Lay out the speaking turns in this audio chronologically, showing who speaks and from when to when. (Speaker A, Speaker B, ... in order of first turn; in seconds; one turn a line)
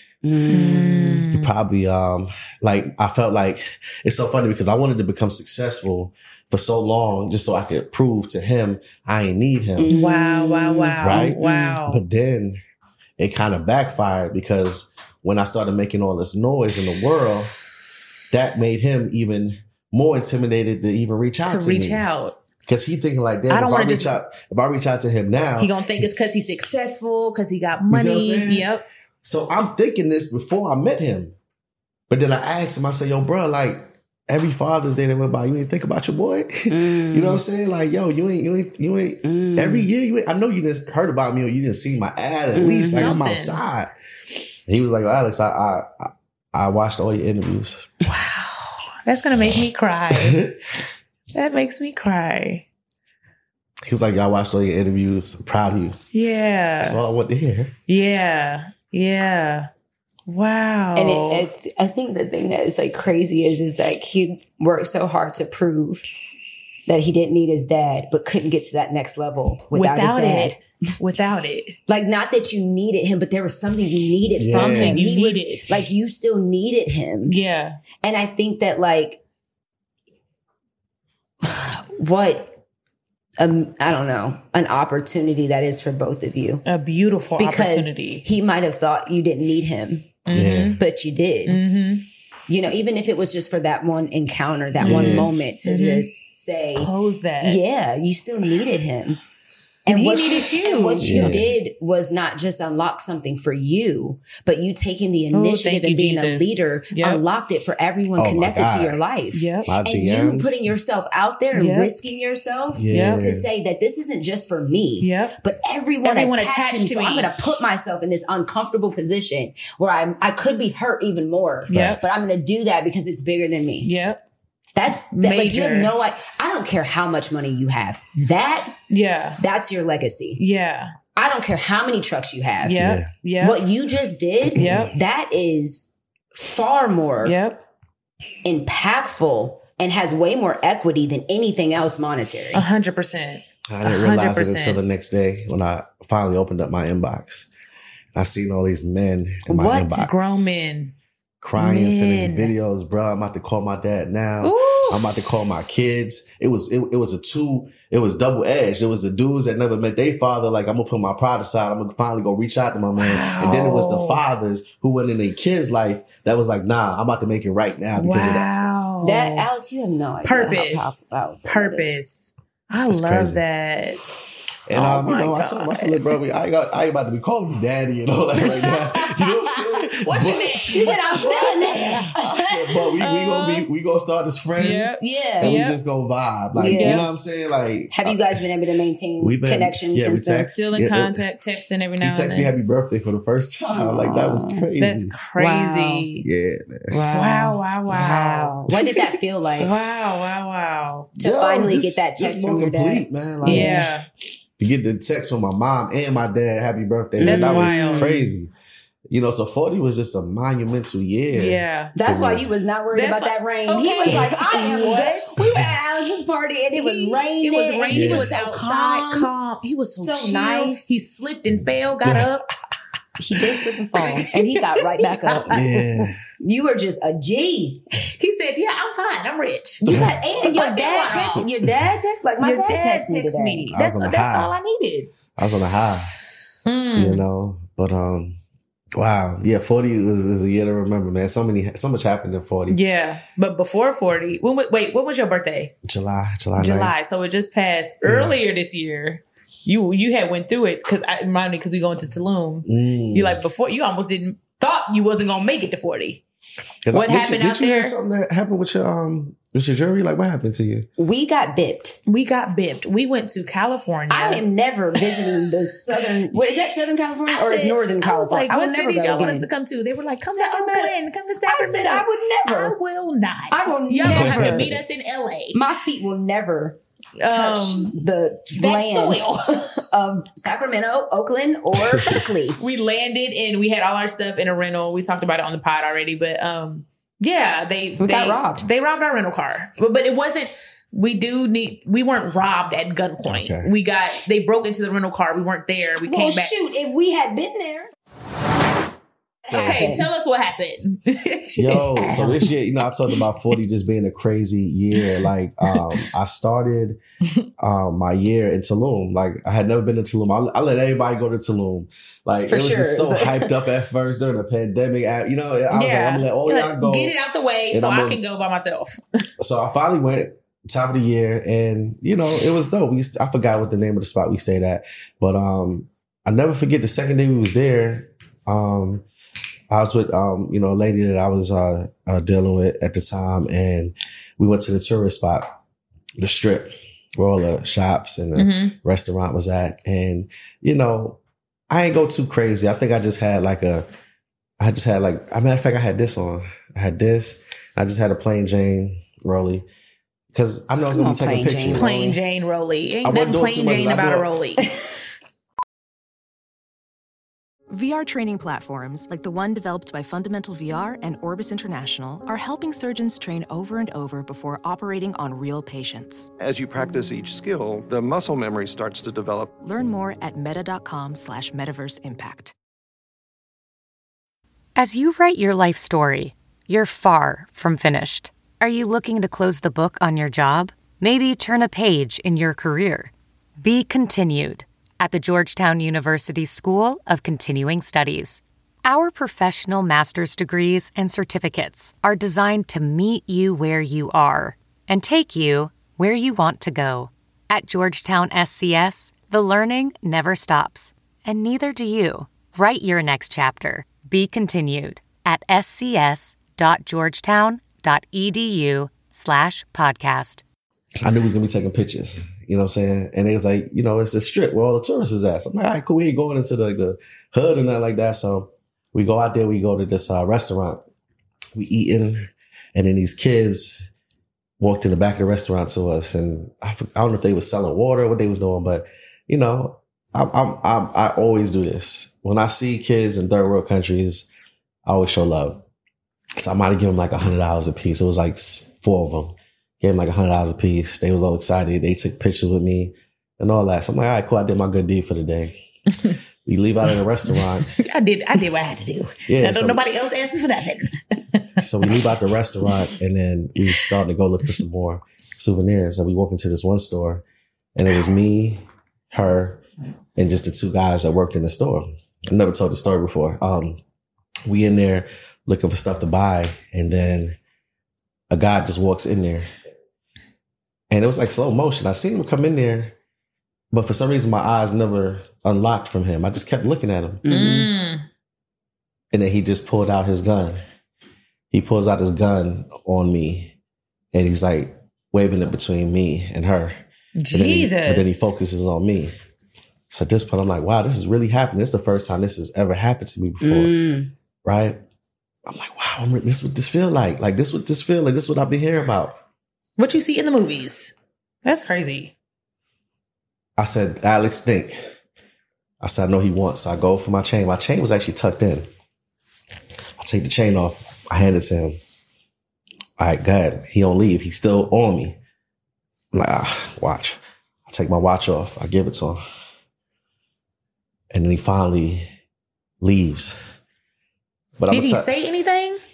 Speaker A: 0.2-1.2
Speaker B: 0.5-1.5
Speaker C: 1.3-9.9
Speaker A: 9.8-11.8
Speaker B: 9.9-12.0
Speaker C: 11.0-12.6
Speaker C: 13.2-17.5
Speaker C: 18.3-22.1
Speaker B: 21.4-22.4
Speaker C: 22.7-26.1
Speaker B: 23.5-24.1
Speaker B: 25.6-28.8
Speaker C: 27.9-28.7
Speaker C: 29.2-31.3
Speaker C: 32.1-43.9
Speaker A: 36.7-37.4
Speaker A: 39.2-39.9
Speaker A: 42.5-43.2
Speaker B: 42.9-43.6
Speaker C: 44.7-47.9
Speaker B: 48.0-50.5
Speaker C: 50.1-50.5
Speaker B: 51.3-52.7
Speaker C: 53.8-56.0
Speaker B: 56.1-57.0
Speaker C: 56.8-57.7
Speaker B: 57.9-59.7
Speaker B: 60.3-61.5
Speaker A: 61.0-66.0
Speaker A: 66.9-70.6
Speaker B: 69.7-71.8
Speaker A: 71.9-77.4
Speaker C: 74.4-75.0
Speaker B: 74.5-75.8
Speaker B: 77.3-77.8
Speaker A: 78.0-79.2
Speaker A: 81.4-82.5
Speaker A: 83.4-86.6
Speaker B: 86.6-88.2
Speaker A: 87.4-90.1
Speaker B: 90.3-90.8
Speaker C: 90.3-90.8
Speaker A: 90.8-91.6
Speaker B: 91.5-92.0
Speaker A: 92.5-96.9
Speaker B: 94.8-96.1
Speaker C: 94.8-95.3
Speaker B: 96.8-97.6
Speaker A: 97.4-99.2
Speaker A: 99.9-123.9
Speaker B: 99.9-101.4
Speaker C: 101.0-101.6
Speaker B: 105.3-107.2
Speaker C: 108.2-109.0
Speaker B: 109.3-109.7
Speaker C: 109.7-110.7
Speaker B: 111.5-111.9
Speaker C: 112.7-113.5
Speaker B: 112.9-113.2
Speaker B: 115.0-115.4
Speaker B: 116.0-117.4
Speaker B: 121.7-122.0
Speaker C: 121.7-122.1
Speaker B: 123.8-124.2
Speaker A: 124.8-128.8
Speaker B: 125.1-125.9
Speaker B: 128.9-129.4
Speaker A: 129.4-130.4
Speaker B: 130.4-130.9
Speaker A: 131.1-132.8
Speaker B: 132.6-133.6
Speaker C: 132.8-133.1
Speaker A: 133.4-137.4
Speaker B: 134.6-134.9
Speaker C: 134.6-134.9
Speaker B: 137.2-137.6
Speaker A: 138.4-142.7
Speaker B: 142.5-144.8
Speaker C: 143.7-147.5
Speaker C: 148.1-150.4
Speaker A: 149.5-150.1
Speaker B: 149.9-150.9
Speaker C: 151.4-168.5
Speaker B: 151.6-152.5
Speaker B: 154.4-155.2
Speaker B: 163.0-164.2
Speaker B: 167.9-169.5
Speaker A: 169.0-172.0
Speaker B: 170.2-174.0
Speaker C: 172.9-173.4
Speaker C: 174.7-180.9
Speaker B: 174.7-176.1
Speaker B: 178.4-182.2
Speaker A: 180.7-182.8
Speaker C: 182.1-188.4
Speaker B: 183.0-183.7
Speaker A: 184.6-185.6
Speaker B: 184.6-185.8
Speaker A: 186.6-187.1
Speaker B: 186.6-187.1
Speaker A: 187.9-190.5
Speaker C: 189.2-191.2
Speaker B: 190.5-192.5
Speaker C: 192.0-195.1
Speaker A: 193.7-194.7
Speaker B: 194.8-196.3
Speaker A: 195.4-196.1
Speaker C: 196.2-196.9
Speaker A: 196.9-199.7
Speaker B: 197.1-198.6
Speaker B: 199.6-201.1
Speaker A: 201.2-203.9
Speaker C: 201.2-203.9
Speaker B: 203.4-204.1
Speaker C: 204.6-208.5
Speaker B: 207.2-208.1
Speaker A: 207.2-208.3
Speaker C: 209.1-212.4
Speaker B: 211.3-211.9
Speaker A: 211.9-219.3
Speaker B: 212.9-215.6
Speaker B: 216.7-222.4
Speaker C: 217.9-218.3
Speaker A: 219.9-221.0
Speaker C: 221.5-222.3
Speaker A: 223.2-225.6
Speaker B: 223.9-226.1
Speaker C: 225.5-226.2
Speaker A: 226.4-227.8
Speaker B: 228.1-231.4
Speaker A: 229.8-233.7
Speaker C: 229.9-230.2
Speaker B: 232.4-235.1
Speaker C: 233.7-234.6
Speaker C: 235.4-236.1
Speaker B: 236.6-237.2
Speaker C: 236.9-238.4
Speaker C: 238.9-242.8
Speaker B: 242.7-245.7
Speaker C: 245.8-246.9
Speaker B: 246.6-256.2
Speaker C: 248.0-248.4
Speaker C: 252.6-253.5
Speaker C: 256.8-260.9
Speaker B: 256.9-257.9
Speaker A: 261.0-261.9
Speaker B: 262.1-264.4
Speaker A: 264.1-269.5
Speaker B: 265.0-265.3
Speaker B: 267.3-275.6
Speaker A: 270.2-272.8
Speaker A: 273.5-274.7
Speaker C: 274.1-274.8
Speaker A: 275.5-282.6
Speaker B: 277.2-277.9
Speaker B: 278.5-279.7
Speaker B: 282.6-296.6
Speaker A: 288.0-288.6
Speaker C: 293.2-293.7
Speaker A: 296.0-297.9
Speaker A: 299.4-300.1
Speaker B: 299.5-302.5
Speaker C: 301.6-307.0
Speaker B: 304.9-306.1
Speaker C: 307.6-317.2
Speaker A: 312.4-313.5
Speaker B: 315.7-319.0
Speaker C: 317.7-318.2
Speaker C: 319.4-329.1
Speaker C: 329.7-335.5
Speaker C: 336.2-341.2
Speaker B: 338.4-338.7
Speaker C: 341.7-343.9
Speaker C: 344.6-349.7
Speaker C: 350.3-352.1
Speaker A: 350.9-352.2
Speaker B: 351.8-354.7
Speaker C: 353.0-354.3
Speaker D: 357.7-366.3
Speaker E: 366.4-369.5
Speaker D: 369.6-372.5
Speaker F: 374.8-410.4
Speaker C: 411.0-420.8
Speaker C: 421.6-423.9
Speaker C: 424.6-434.3
Speaker C: 434.8-435.6
Speaker C: 436.4-445.6
Speaker C: 446.4-447.7
Speaker B: 447.8-451.9
Speaker C: 449.3-449.8
Speaker C: 451.6-457.2
Speaker C: 457.7-459.6
Speaker C: 460.2-463.8
Speaker C: 464.4-467.4
Speaker C: 468.3-469.5
Speaker C: 470.9-472.9
Speaker C: 473.7-477.2
Speaker A: 477.2-477.7
Speaker B: 477.3-478.1
Speaker C: 479.1-480.6
Speaker C: 481.5-483.5
Speaker C: 484.1-486.8
Speaker B: 487.2-488.3
Speaker C: 487.3-489.1
Speaker C: 489.9-493.8
Speaker A: 493.4-494.1
Speaker C: 494.4-494.8
Speaker C: 495.4-499.2
Speaker B: 499.8-500.9
Speaker B: 501.4-502.1
Speaker C: 503.6-504.8
Speaker C: 505.8-508.7
Speaker C: 510.0-511.8
Speaker C: 513.0-515.2
Speaker C: 516.1-519.2
Speaker C: 521.1-522.1
Speaker C: 522.8-523.4
Speaker C: 524.6-525.1
Speaker B: 524.7-525.8